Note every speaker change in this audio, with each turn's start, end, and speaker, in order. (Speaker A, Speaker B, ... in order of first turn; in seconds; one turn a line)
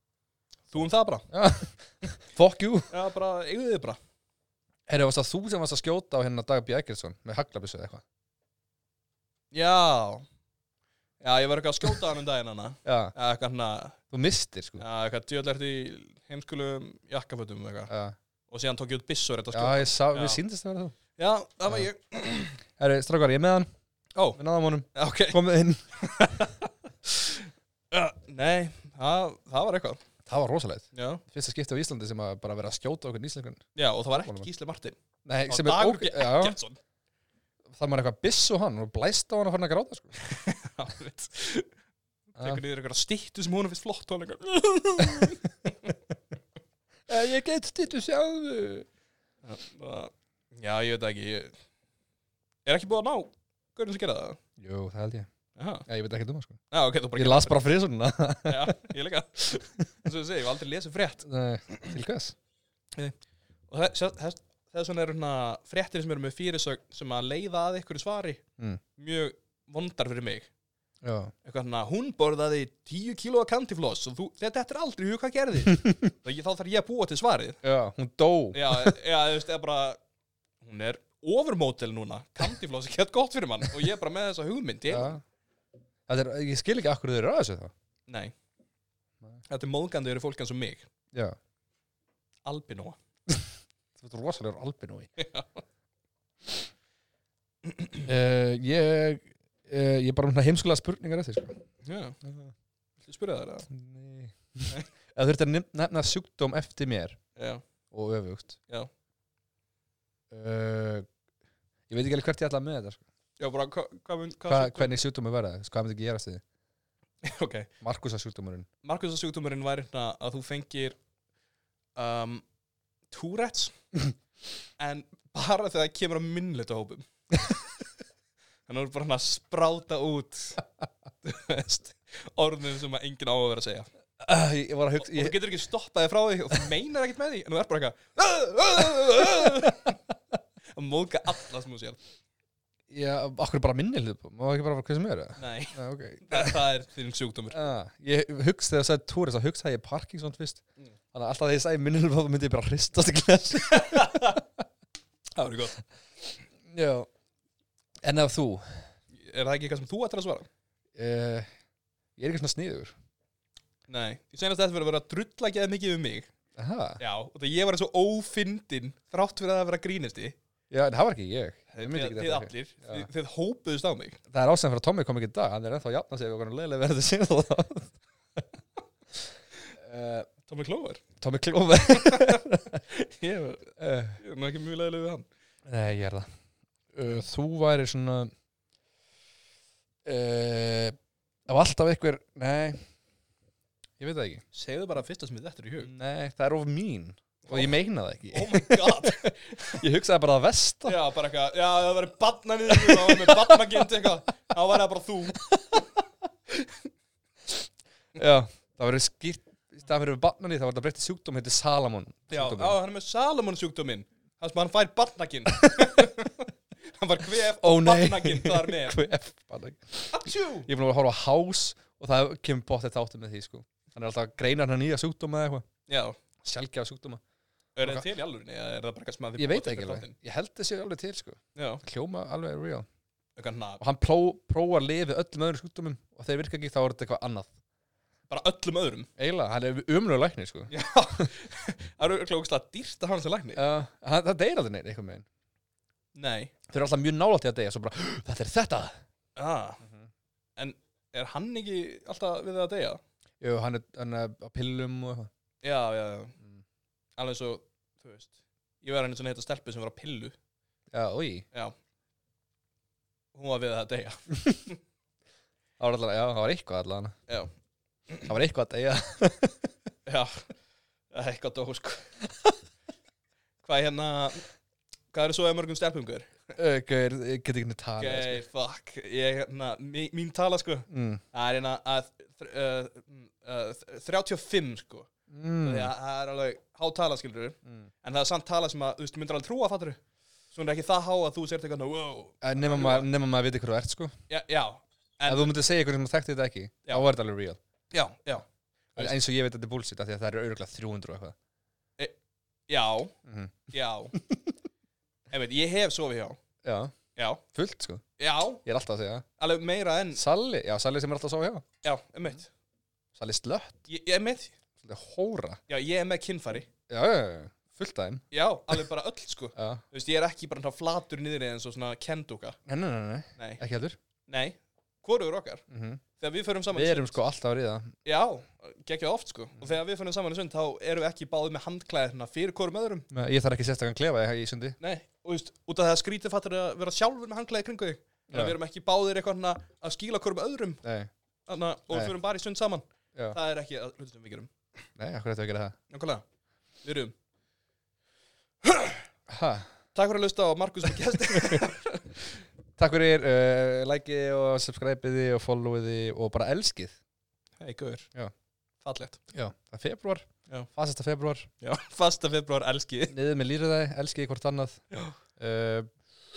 Speaker A: 0.7-1.3
Speaker B: 1.3-2.9
Speaker A: 2.9-4.0
Speaker B: 4.9-8.0
Speaker A: 9.5-10.2
Speaker A: 11.2-14.0
Speaker B: 12.8-13.1
Speaker B: 14.1-14.8
Speaker A: 14.8-17.9
Speaker B: 17.9-18.1
Speaker A: 18.5-20.4
Speaker B: 19.5-20.9
Speaker A: 21.2-22.6
Speaker B: 22.8-23.7
Speaker B: 24.4-25.8
Speaker A: 24.9-25.4
Speaker A: 26.0-30.0
Speaker B: 30.3-33.6
Speaker A: 30.9-31.2
Speaker A: 33.8-35.0
Speaker B: 35.3-36.6
Speaker A: 35.5-36.8
Speaker B: 37.7-40.2
Speaker A: 40.2-41.7
Speaker A: 42.4-45.9
Speaker B: 45.0-45.3
Speaker B: 47.1-48.9
Speaker A: 49.5-51.5
Speaker A: 52.6-54.4
Speaker B: 54.6-55.3
Speaker A: 55.6-55.9
Speaker B: 55.9-56.6
Speaker A: 56.7-57.6
Speaker B: 57.2-58.8
Speaker A: 58.5-61.9
Speaker B: 61.2-62.4
Speaker A: 63.7-68.4
Speaker A: 69.0-70.5
Speaker B: 71.0-71.3
Speaker A: 71.5-77.6
Speaker B: 75.7-76.1
Speaker B: 77.6-79.0
Speaker A: 78.5-80.0
Speaker A: 80.6-85.2
Speaker B: 84.9-85.2
Speaker B: 86.1-87.7
Speaker A: 88.1-88.3
Speaker A: 89.5-90.9
Speaker A: 92.5-93.0
Speaker B: 93.3-95.1
Speaker A: 95.2-95.6
Speaker B: 98.0-101.6
Speaker A: 101.8-102.2
Speaker B: 102.2-102.5
Speaker A: 103.0-103.7
Speaker B: 103.7-107.2
Speaker A: 107.4-107.6
Speaker B: 107.9-108.6
Speaker B: 110.3-111.1
Speaker B: 111.9-113.0
Speaker A: 113.4-115.0
Speaker B: 114.5-116.4
Speaker A: 117.2-117.7
Speaker B: 117.8-118.7
Speaker A: 118.8-121.0
Speaker A: 122.0-122.4
Speaker A: 123.1-123.8
Speaker A: 124.8-127.0
Speaker A: 128.7-130.6
Speaker A: 131.2-133.9
Speaker B: 134.2-135.4
Speaker A: 135.0-140.0
Speaker B: 139.2-139.7
Speaker A: 140.8-142.0
Speaker B: 142.9-146.6
Speaker A: 145.4-147.6
Speaker B: 147.5-150.6
Speaker B: 151.1-154.4
Speaker A: 153.7-154.4
Speaker A: 155.4-155.8
Speaker B: 156.6-157.1
Speaker B: 158.0-158.9
Speaker A: 159.1-160.5
Speaker B: 160.9-161.5
Speaker B: 162.2-162.9
Speaker A: 163.9-166.3
Speaker B: 166.6-167.0
Speaker A: 167.0-170.4
Speaker B: 170.7-173.1
Speaker A: 171.7-174.2
Speaker B: 174.3-178.4
Speaker B: 179.8-180.3
Speaker A: 180.5-181.0
Speaker B: 181.2-182.8
Speaker A: 181.9-185.3
Speaker B: 183.8-184.2
Speaker B: 185.7-186.3
Speaker B: 186.9-188.3
Speaker B: 190.1-192.8
Speaker B: 194.0-194.4
Speaker A: 194.5-195.9
Speaker B: 195.8-201.0
Speaker A: 197.4-197.8
Speaker A: 198.3-199.8
Speaker A: 200.8-205.5
Speaker B: 202.7-203.8
Speaker B: 205.5-205.8
Speaker B: 208.2-212.8
Speaker A: 212.3-219.0
Speaker B: 215.6-216.1
Speaker B: 217.6-225.7
Speaker A: 220.1-220.7
Speaker A: 225.9-226.2
Speaker B: 226.4-227.2
Speaker A: 227.8-230.1
Speaker B: 229.4-232.9
Speaker A: 231.6-231.8
Speaker A: 233.4-233.8
Speaker B: 233.8-237.5
Speaker A: 238.3-239.1
Speaker B: 239.2-241.2
Speaker A: 240.7-243.6
Speaker B: 243.6-245.2
Speaker A: 246.2-246.5
Speaker B: 246.7-249.0
Speaker A: 249.4-249.8
Speaker A: 250.6-253.0
Speaker B: 253.4-255.3
Speaker A: 255.6-256.4
Speaker A: 257.2-260.3
Speaker B: 260.9-261.5
Speaker A: 263.4-264.8
Speaker B: 265.8-267.2
Speaker B: 268.3-269.7
Speaker A: 270.1-270.4
Speaker A: 271.1-272.1
Speaker A: 273.6-274.4
Speaker A: 275.1-276.4
Speaker B: 276.6-278.4
Speaker A: 278.0-285.1
Speaker B: 280.9-281.2
Speaker B: 285.3-285.9
Speaker A: 285.6-290.0
Speaker A: 290.5-293.1
Speaker B: 292.4-294.1
Speaker A: 294.3-295.6
Speaker B: 295.3-297.6
Speaker A: 297.9-298.4
Speaker B: 299.0-301.4
Speaker A: 302.7-303.1
Speaker B: 303.3-303.6
Speaker A: 303.7-304.2
Speaker B: 304.1-304.5
Speaker A: 305.3-306.4
Speaker B: 306.6-306.9
Speaker A: 307.2-307.4
Speaker B: 307.5-308.0
Speaker A: 308.2-308.6
Speaker B: 308.6-309.2
Speaker A: 309.4-310.2
Speaker B: 310.1-311.6
Speaker A: 311.8-312.5
Speaker B: 313.2-313.9
Speaker A: 313.9-314.5
Speaker B: 314.8-315.6
Speaker A: 315.7-316.7
Speaker B: 316.9-318.8
Speaker A: 318.3-322.6
Speaker B: 319.6-319.8
Speaker B: 322.7-324.0
Speaker A: 324.3-325.6
Speaker B: 325.7-326.0
Speaker A: 326.2-327.2
Speaker B: 326.7-327.9
Speaker A: 328.1-333.1
Speaker B: 333.1-334.8
Speaker A: 334.8-340.8
Speaker B: 338.3-338.6
Speaker B: 340.8-341.1
Speaker A: 341.5-344.5
Speaker B: 345.0-345.8
Speaker A: 345.9-346.2
Speaker A: 346.8-347.1
Speaker A: 348.6-349.0
Speaker B: 349.3-349.7
Speaker A: 349.9-352.1
Speaker B: 351.3-351.7
Speaker B: 352.8-357.0
Speaker A: 357.6-358.1
Speaker A: 358.8-359.2
Speaker B: 359.3-361.5
Speaker A: 361.6-363.1
Speaker B: 363.1-364.8
Speaker B: 365.4-365.9